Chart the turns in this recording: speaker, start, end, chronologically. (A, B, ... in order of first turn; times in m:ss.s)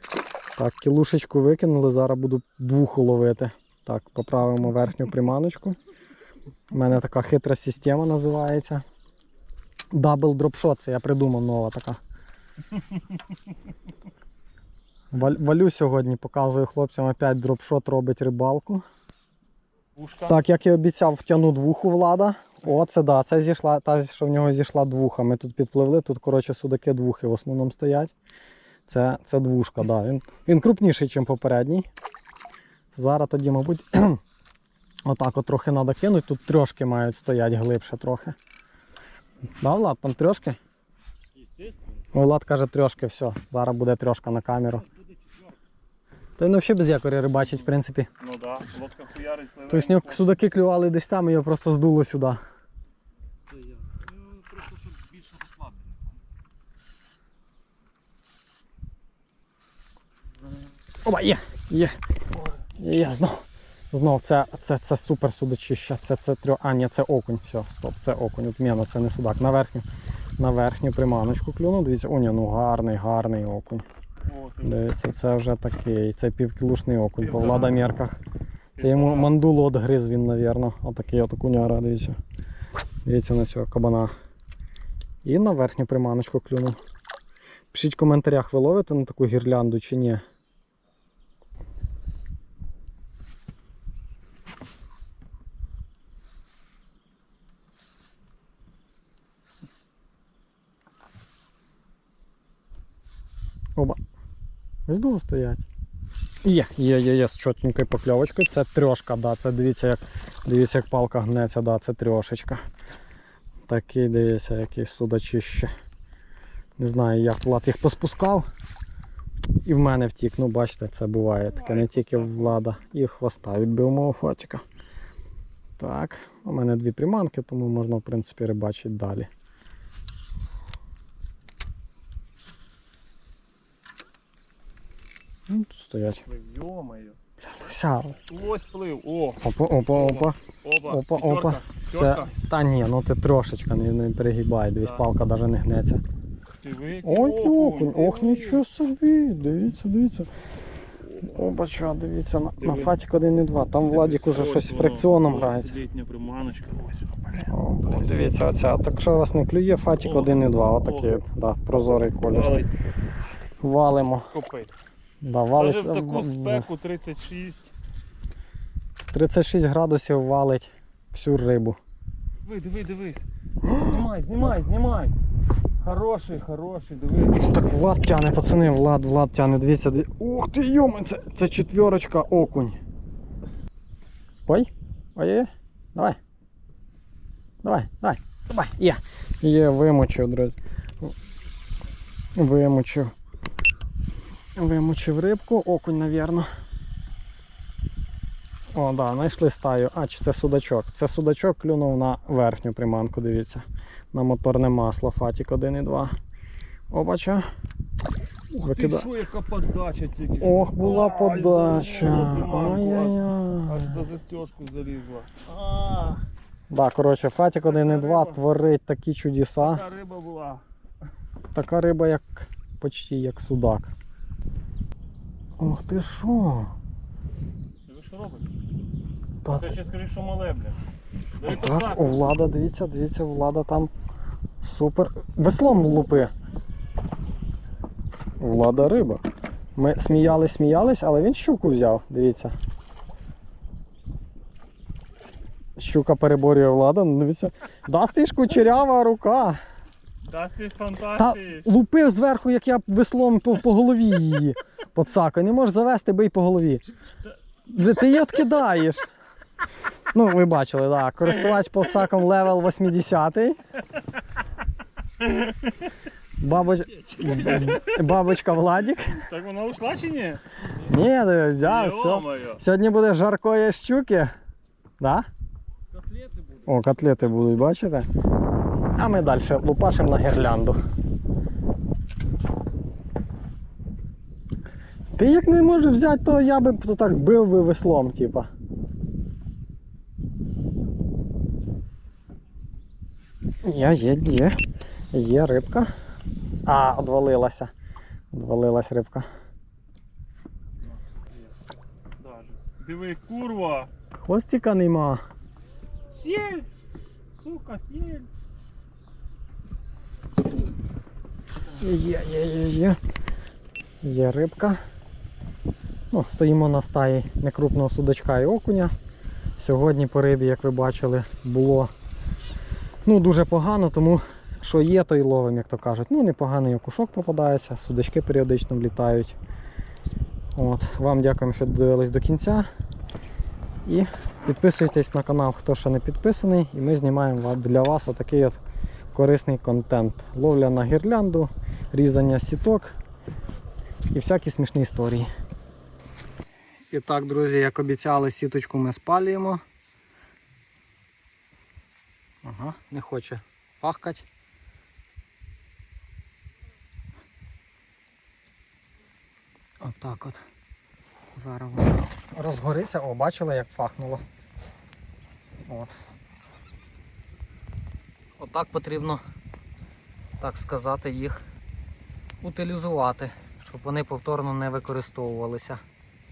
0:00.6-0:05.8 A
0:06.7-0:08.8 A
0:09.9-0:12.0 A
0:15.1-0:18.8 A
0:20.0-0:20.3 B
0:20.2-0:28.1 A
0:28.9-0:31.9 A
0:32.9-0:34.2 A
0:35.0-0:38.4 A
0:39.6-0:40.6 A
0:42.1-0:44.8 A
0:46.4-0:48.1 A
0:47.4-0:50.3 B
0:49.7-0:52.4 A
0:53.9-0:55.5 B
1:01.0-1:02.0 A
1:02.7-1:09.9 A
1:10.4-1:13.8 A
1:14.2-1:14.8 B
1:14.6-1:18.2 A
1:17.2-1:17.9 B
1:18.8-1:19.3 B
1:18.8-1:22.2 A
1:23.0-1:24.1 A
1:25.2-1:26.8 A
1:27.7-1:30.2 A
1:44.9-1:45.6 A
1:46.4-1:52.6 A
1:53.7-1:55.7 A
1:56.8-1:58.4 A
1:59.6-2:04.6 A
2:01.6-2:02.6 B
2:05.8-2:09.3 A
2:15.5-2:16.2 A
2:16.2-2:17.2 B
2:17.4-2:18.2 A
2:18.3-2:22.3 B
2:19.4-2:26.0 A
2:26.6-2:28.6 B
2:27.0-2:30.3 A
2:31.2-2:35.8 A
2:32.6-2:32.9 B
2:33.8-2:38.4 B
2:37.4-2:42.6 A
2:40.0-2:41.2 B
2:42.3-2:42.7 B
2:43.6-2:44.3 A
2:44.3-2:44.7 B
2:45.2-2:46.7 A
2:45.6-2:47.7 B
2:49.1-2:51.8 A
2:52.4-2:55.2 B
2:53.6-2:54.0 A
2:55.8-2:57.4 B
2:57.3-3:02.8 A
3:04.4-3:06.2 A
3:07.6-3:10.6 A
3:12.4-3:13.1 A
3:14.6-3:16.5 A
3:18.7-3:26.1 A
3:26.9-3:27.5 A
3:28.5-3:36.2 B
3:28.6-3:29.1 A
3:30.4-3:34.0 A
3:36.7-3:39.8 A
3:37.7-3:38.4 B
3:39.6-3:40.6 B
3:41.5-3:43.9 A
3:45.6-3:46.7 A
3:47.9-3:48.5 B
3:49.4-3:49.7 A
3:49.5-3:50.8 B
3:51.4-3:52.3 B
3:51.4-3:53.9 A
3:54.6-3:56.3 A
3:58.4-3:59.2 A
3:59.8-4:02.5 A
4:05.8-4:09.6 A
4:10.2-4:11.6 B
4:11.1-4:16.8 A
4:17.7-4:19.1 A
4:20.1-4:23.6 A
4:25.2-4:25.9 B
4:26.4-4:29.2 A
4:27.0-4:28.2 B
4:29.0-4:30.4 B
4:30.7-4:34.3 A
4:31.6-4:32.6 B
4:35.0-4:35.2 A
4:36.6-4:38.1 A
4:38.9-4:40.8 A
4:45.2-4:48.5 A
4:53.6-4:54.6 A
4:55.1-4:55.9 A
4:56.6-4:57.7 A
4:58.3-4:59.3 A
5:02.2-5:03.9 B
5:04.2-5:05.2 A
5:06.1-5:06.7 B
5:07.3-5:08.3 B
5:11.8-5:13.0 A
5:14.0-5:14.8 A
5:16.1-5:18.9 A
5:19.6-5:21.9 A
5:23.0-5:29.4 A
5:30.6-5:32.7 A
5:33.8-5:38.6 A
5:39.1-5:43.0 A
5:44.1-5:45.3 A
5:46.9-5:49.6 A
5:52.4-5:54.2 A
5:59.8-6:00.4 A
6:01.4-6:04.2 A
6:05.7-6:05.9 A
6:08.4-6:09.2 A
6:10.4-6:11.4 A
6:12.4-6:15.8 A